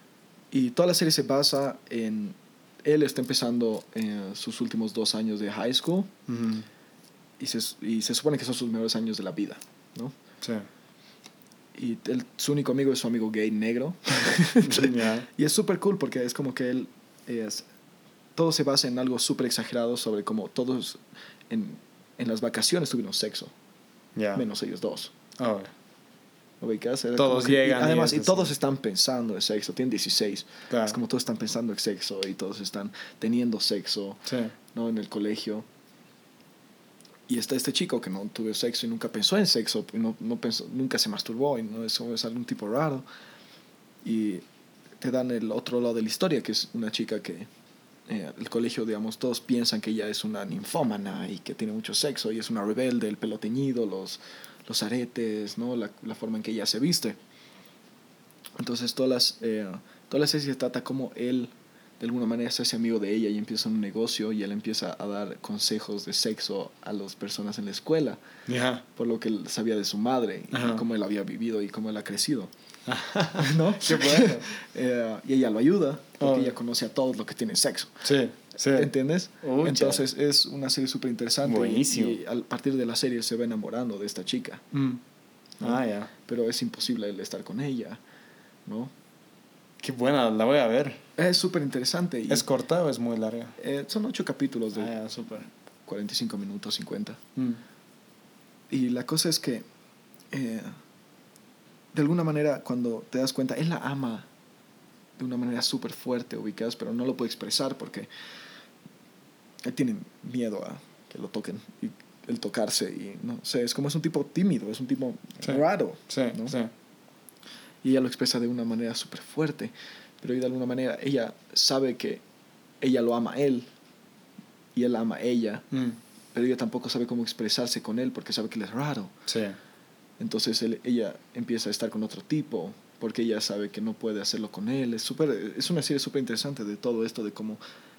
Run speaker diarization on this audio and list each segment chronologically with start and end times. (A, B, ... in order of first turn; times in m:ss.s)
0:00.5-0:06.1 A
0:06.3-0:06.6 B
0:07.4-0:10.1 A
0:10.4-0:10.7 B
0:11.7-0:17.7 A
0:14.6-0:15.3 B
0:18.4-0:23.5 A
0:24.1-0:24.4 B
0:24.3-0:25.1 A
0:25.4-0:25.7 B
0:26.6-0:34.2 A
0:27.2-0:28.5 B
0:30.7-0:31.0 B
0:34.2-0:34.5 B
0:34.7-0:35.6 A
0:37.3-0:43.0 A
0:44.0-0:44.4 A
0:45.0-0:47.5 A
0:48.1-0:57.2 A
0:58.6-1:08.2 A
1:08.5-1:08.8 B
1:08.9-1:12.5 A
1:10.5-1:10.8 B
1:12.9-1:14.5 B
1:13.4-1:18.0 A
1:16.2-1:16.5 B
1:18.0-1:20.0 B
1:18.7-1:24.7 A
1:21.4-1:22.2 B
1:24.7-1:25.0 B
1:25.6-1:28.0 A
1:25.6-1:26.1 B
1:28.6-1:28.9 A
1:29.8-1:31.0 B
1:31.2-1:32.4 A
1:32.3-1:33.6 B
1:33.6-1:35.0 A
1:34.7-1:35.5 B
1:35.8-1:37.2 A
1:37.4-1:37.6 B
1:38.7-1:39.6 A
1:40.3-1:40.8 A
1:41.9-1:44.3 A
1:45.2-1:48.1 A
1:49.6-1:56.6 A
1:55.4-1:56.7 B
1:57.8-2:02.2 A
2:02.8-2:03.7 A
2:04.7-2:05.7 A
2:05.7-2:06.0 B
2:06.3-2:09.1 A
2:09.3-2:09.6 B
2:10.2-2:17.6 A